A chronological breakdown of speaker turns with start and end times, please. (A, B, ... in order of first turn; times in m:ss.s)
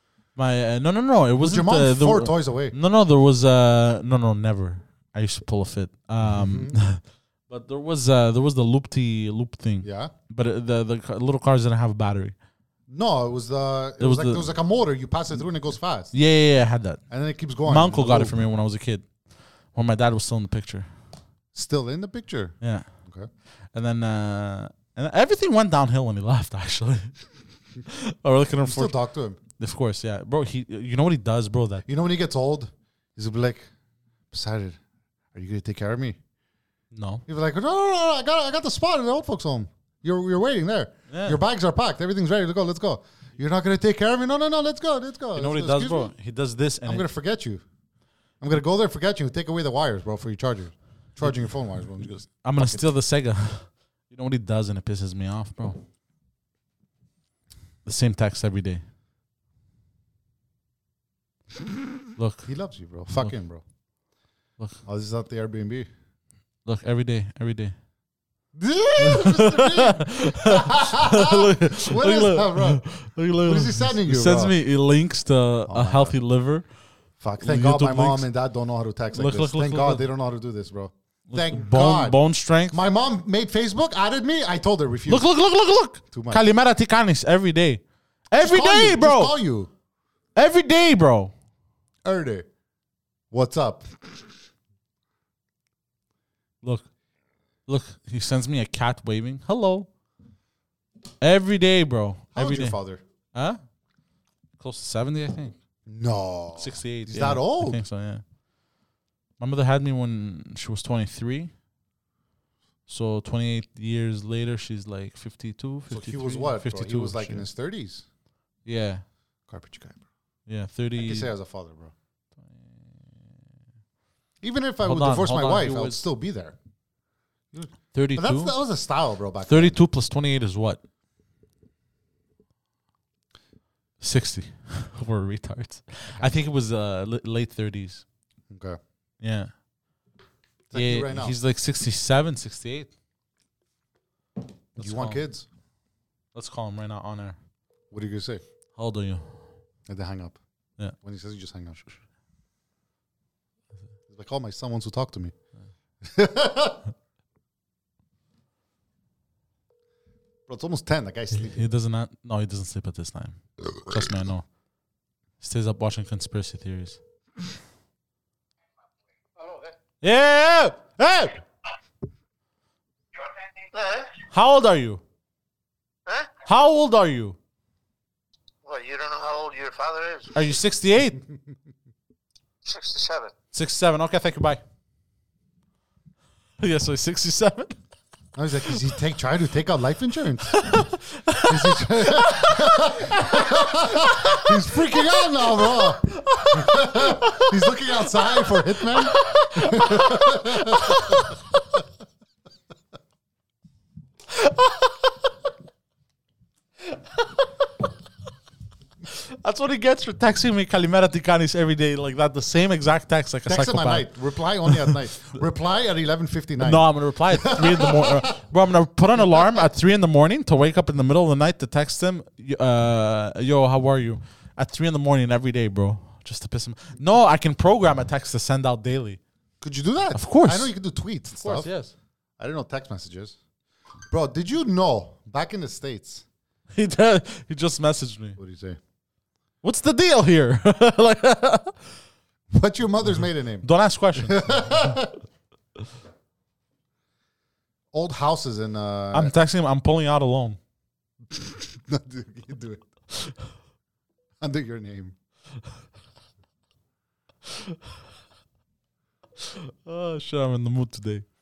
0:00.4-0:12.3 A
0:01.4-0:02.7 B
0:06.2-0:06.8 B
0:09.8-0:10.1 B
0:12.9-0:16.1 B
0:14.0-0:14.4 A
0:16.1-0:17.0 A
0:17.1-0:18.4 B
0:17.6-0:19.1 A
0:19.7-0:20.9 A
0:21.5-0:23.3 B
0:22.6-0:22.9 A
0:23.7-0:27.2 A
0:27.8-0:28.9 A
0:28.6-0:29.4 B
0:29.6-0:31.8 A
0:31.9-0:33.7 B
0:34.3-0:34.8 B
0:35.3-0:36.2 B
0:36.9-0:37.2 A
0:37.3-0:46.1 B
0:41.1-0:41.4 A
0:45.4-0:47.0 A
0:46.9-0:47.6 B
0:48.4-0:52.8 B
0:52.4-0:55.8 A
0:57.8-0:58.8 A
1:02.2-1:02.5 A
1:02.4-1:03.6 B
1:04.9-1:05.9 B
1:06.6-1:07.7 A
1:08.6-1:12.8 B
1:09.0-1:16.6 A
1:13.4-1:14.6 B
1:15.7-1:16.2 B
1:17.2-1:22.2 B
1:17.4-1:18.3 A
1:19.1-1:20.0 A
1:21.3-1:22.8 A
1:22.7-1:25.3 B
1:25.1-1:29.3 A
1:26.1-1:26.4 B
1:28.4-1:29.7 B
1:30.4-1:31.3 A
1:32.0-1:32.4 B
1:33.3-1:34.2 B
1:36.6-1:36.9 A
1:37.7-1:39.9 A
1:41.2-1:42.8 A
1:42.3-1:43.0 B
1:43.3-1:43.6 A
1:44.6-1:45.6 A
1:45.9-1:47.8 B
1:46.6-1:48.2 A
1:49.4-1:51.5 A
1:52.9-1:57.5 A
1:55.9-1:58.0 B
1:58.6-1:59.0 A
1:59.5-2:00.0 B
2:00.5-2:01.3 A
2:01.0-2:01.9 B
2:04.4-2:06.6 B
2:04.8-2:06.0 A
2:07.5-2:09.8 B
2:07.9-2:08.6 A
2:09.5-2:10.8 A
2:14.0-2:18.0 A
2:18.5-2:18.8 B
2:19.2-2:19.5 A
2:20.7-2:21.4 B
2:20.7-2:22.9 A
2:24.8-2:25.2 A
2:24.8-2:25.5 B
2:26.3-2:27.4 A
2:27.9-2:28.4 B
2:28.8-2:29.3 A
2:29.9-2:30.4 B
2:31.0-2:31.9 B
2:34.1-2:35.3 B
2:36.0-2:36.8 B
2:40.5-2:41.7 B
2:41.3-2:44.4 A
2:45.4-2:47.0 A
2:49.4-2:49.7 C
2:50.0-2:51.4 A
2:53.6-2:54.2 C
2:54.3-2:55.0 A
2:56.0-2:56.3 C
2:56.4-2:57.4 A
2:58.6-3:00.4 C
3:00.3-3:01.2 A
3:02.6-3:03.3 C
3:03.5-3:04.6 A
3:06.6-3:07.8 A
3:08.3-3:10.7 B
3:10.5-3:14.5 A
3:11.5-3:21.2 B
3:15.4-3:17.5 A
3:18.8-3:21.4 A
3:24.3-3:25.1 A
3:26.9-3:27.7 A
3:29.0-3:34.1 A
3:33.4-3:38.3 B
3:34.6-3:35.0 A
3:36.6-3:49.2 A
3:39.2-3:39.6 B
3:49.6-3:51.7 B
3:50.1-3:50.7 A
3:51.4-3:51.9 A
3:52.4-3:53.4 B
3:54.1-3:56.2 B
3:56.7-3:58.4 A
3:58.4-3:58.8 B
3:59.6-4:01.8 A
4:02.5-4:05.2 B
4:03.6-4:04.9 A
4:07.9-4:09.3 B
4:09.1-4:10.6 A
4:11.3-4:12.8 B
4:14.4-4:15.1 B
4:17.5-4:17.8 A
4:19.4-4:21.3 A